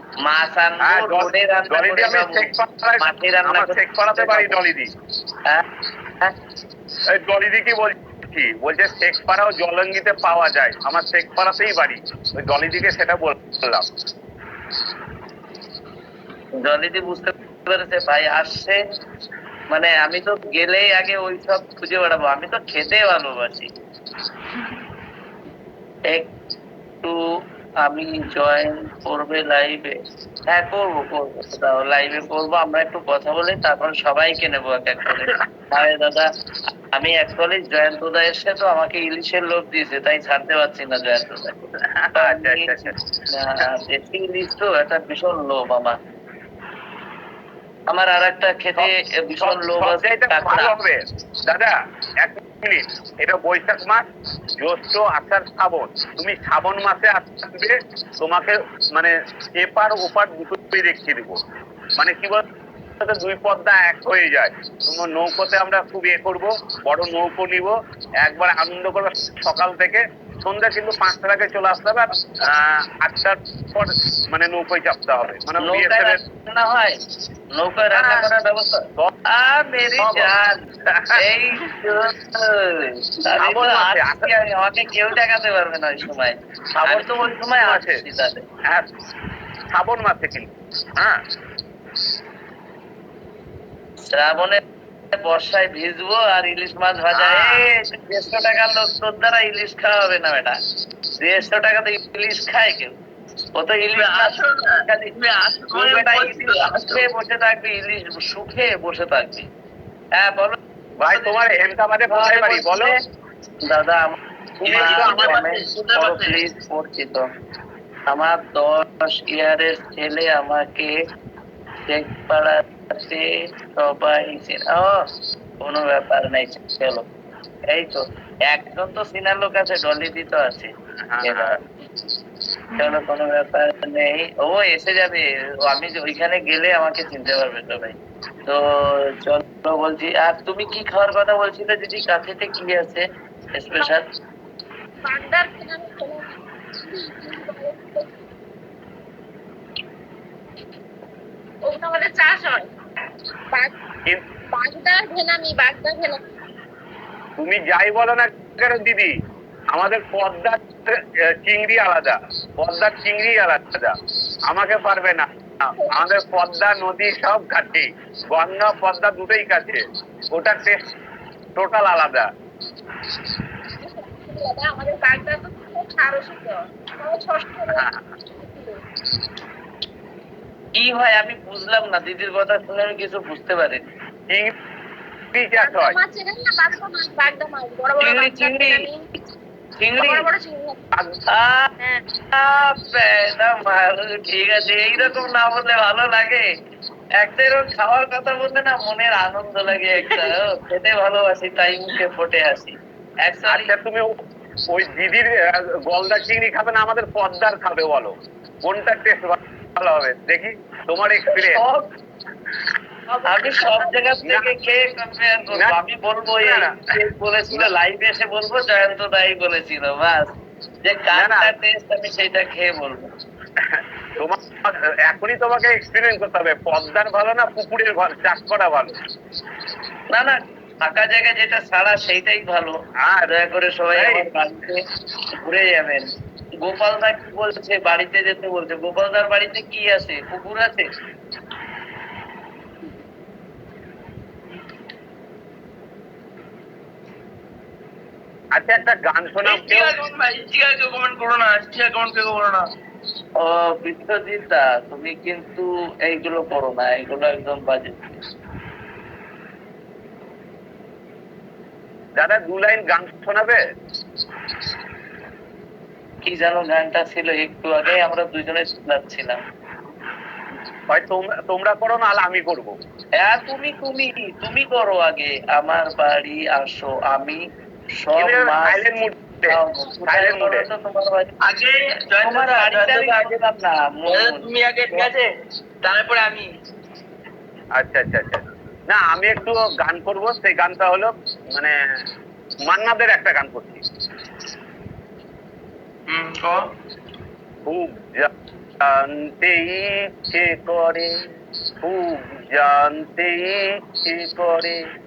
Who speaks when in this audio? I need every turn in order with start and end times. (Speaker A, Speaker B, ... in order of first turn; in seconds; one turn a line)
Speaker A: 0.2-4.6
Speaker B: 0.8-4.9
Speaker B: 7.1-13.9
Speaker A: 16.6-18.8
Speaker A: 19.7-23.7
Speaker A: 27.8-30.0
Speaker A: 30.5-36.3
Speaker A: 36.8-46.0
Speaker B: 41.8-43.0
Speaker A: 47.9-50.7
Speaker B: 48.8-54.1
Speaker B: 54.6-61.4
Speaker B: 62.0-62.4
Speaker B: 63.0-76.2
Speaker A: 75.6-77.0
Speaker A: 77.5-80.6
Speaker B: 77.9-78.3
Speaker B: 80.0-80.3
Speaker B: 80.9-81.2
Speaker A: 81.1-88.4
Speaker B: 83.4-84.3
Speaker B: 86.8-88.0
Speaker B: 89.7-91.2
Speaker A: 94.1-100.6
Speaker B: 97.1-97.6
Speaker A: 101.2-102.9
Speaker A: 103.5-105.1
Speaker C: 103.9-107.1
Speaker A: 105.7-109.5
Speaker A: 110.1-110.6
Speaker B: 111.0-112.9
Speaker A: 112.1-113.0
Speaker A: 113.6-117.3
Speaker B: 114.6-115.4
Speaker C: 114.7-116.4
Speaker A: 118.1-121.0
Speaker A: 121.8-125.1
Speaker A: 125.6-127.1
Speaker A: 127.7-131.6
Speaker B: 131.1-131.6
Speaker A: 132.7-144.0
Speaker D: 145.1-146.3
Speaker D: 146.9-148.0
Speaker D: 151.7-152.7
Speaker D: 154.5-156.2
Speaker B: 157.4-159.1
Speaker B: 159.7-163.9
Speaker B: 164.4-170.8
Speaker B: 171.6-172.3
Speaker D: 174.0-177.8
Speaker B: 177.7-178.1
Speaker D: 178.4-178.8
Speaker A: 180.7-183.9
Speaker B: 185.3-185.9
Speaker D: 185.6-189.0
Speaker A: 188.0-188.9
Speaker A: 189.8-190.3
Speaker D: 190.1-190.9
Speaker A: 191.3-191.7
Speaker A: 192.3-196.5
Speaker A: 197.2-203.7
Speaker B: 203.5-204.1
Speaker B: 204.7-211.6
Speaker A: 211.3-211.9
Speaker A: 213.2-220.3
Speaker B: 214.2-214.5
Speaker B: 215.5-215.8
Speaker B: 216.4-216.8
Speaker A: 220.8-223.1
Speaker B: 221.1-221.5
Speaker B: 223.6-229.0
Speaker A: 230.1-234.8
Speaker B: 233.0-233.3
Speaker B: 233.9-234.3
Speaker A: 235.4-236.1
Speaker A: 236.6-240.9
Speaker B: 248.5-249.9
Speaker C: 249.4-252.7
Speaker A: 253.4-258.2
Speaker B: 262.2-263.6
Speaker A: 266.2-269.4
Speaker B: 270.9-272.8
Speaker A: 273.2-277.4
Speaker A: 278.0-281.4
Speaker B: 278.1-280.6
Speaker C: 281.4-283.3
Speaker A: 282.2-285.1
Speaker C: 284.1-285.3
Speaker C: 285.8-286.5
Speaker B: 287.8-291.8
Speaker B: 292.7-293.8
Speaker C: 296.1-296.6
Speaker B: 297.6-301.2
Speaker B: 301.8-304.8